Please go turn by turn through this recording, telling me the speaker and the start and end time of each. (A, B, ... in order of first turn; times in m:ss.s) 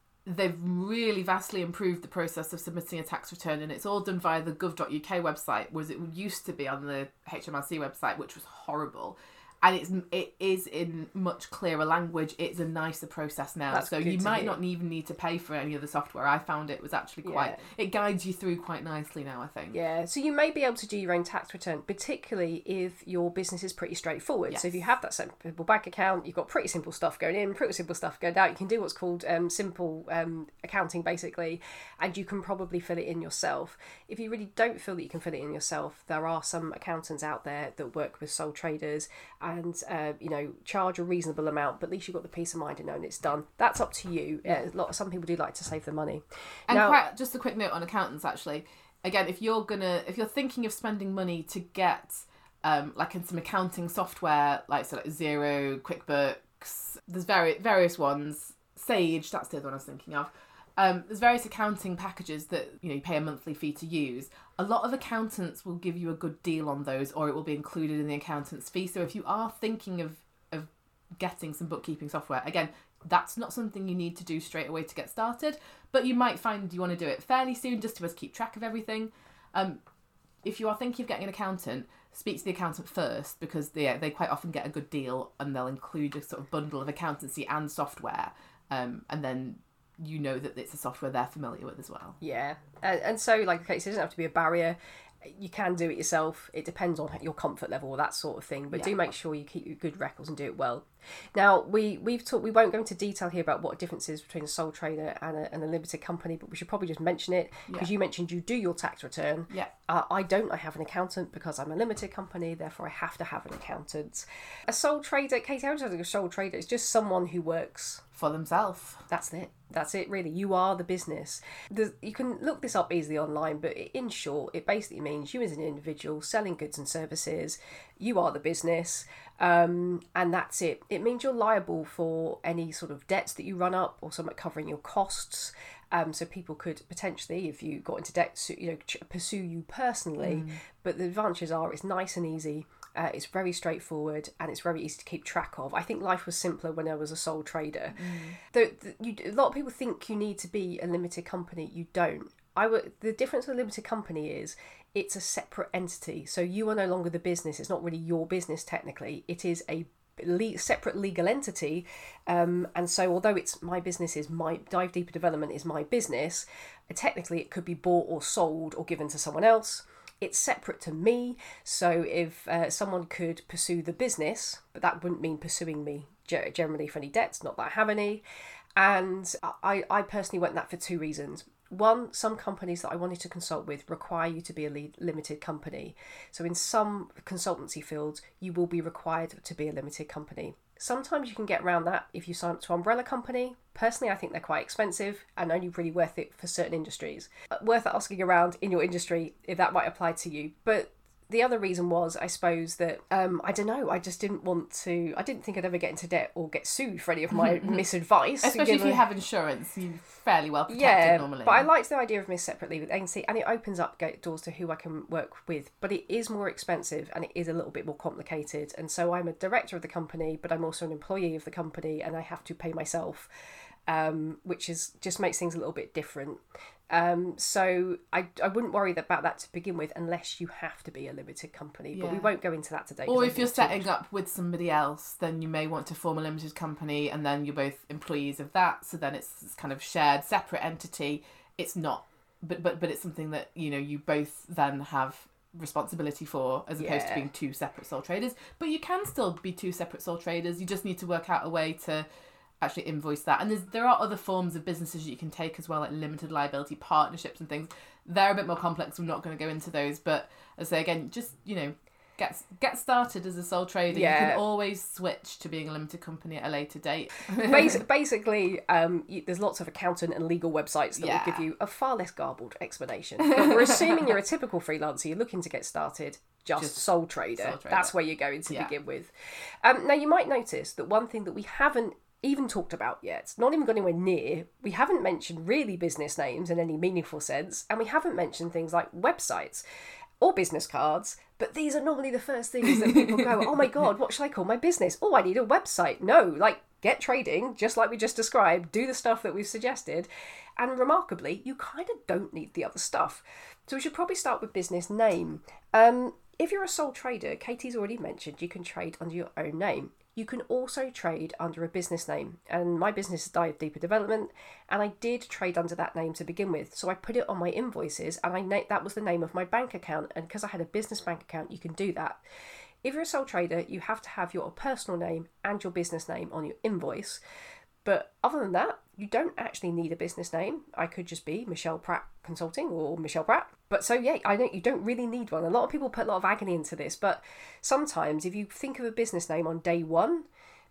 0:00.2-0:19.8 A
0:13.7-0:14.6 B
0:17.2-0:17.6 B
0:19.7-0:47.0 B
0:24.5-0:24.8 A
0:46.7-1:19.8 A
1:20.4-1:32.2 A
1:32.2-1:58.0 B
1:38.7-1:39.0 A
1:58.2-1:59.1 A
1:59.1-2:58.2 B
2:20.2-2:20.6 A
2:27.9-2:28.4 A
2:58.8-3:29.0 B
3:27.3-3:27.8 A
3:28.4-3:31.7 A
3:30.7-3:43.3 B
3:43.9-3:46.4 B
3:46.9-3:53.9 B
3:51.9-3:52.3 A
3:53.1-4:12.1 A
4:06.8-4:07.3 B
4:12.6-4:27.8 A
4:23.9-4:24.4 B
4:27.4-4:39.1 B
4:31.0-4:31.4 A
4:33.2-4:34.0 A
4:36.6-4:37.9 A
4:39.6-4:49.6 B
4:50.2-5:22.2 B
4:52.6-4:53.8 A
5:22.8-5:27.2 B
5:27.8-5:40.3 B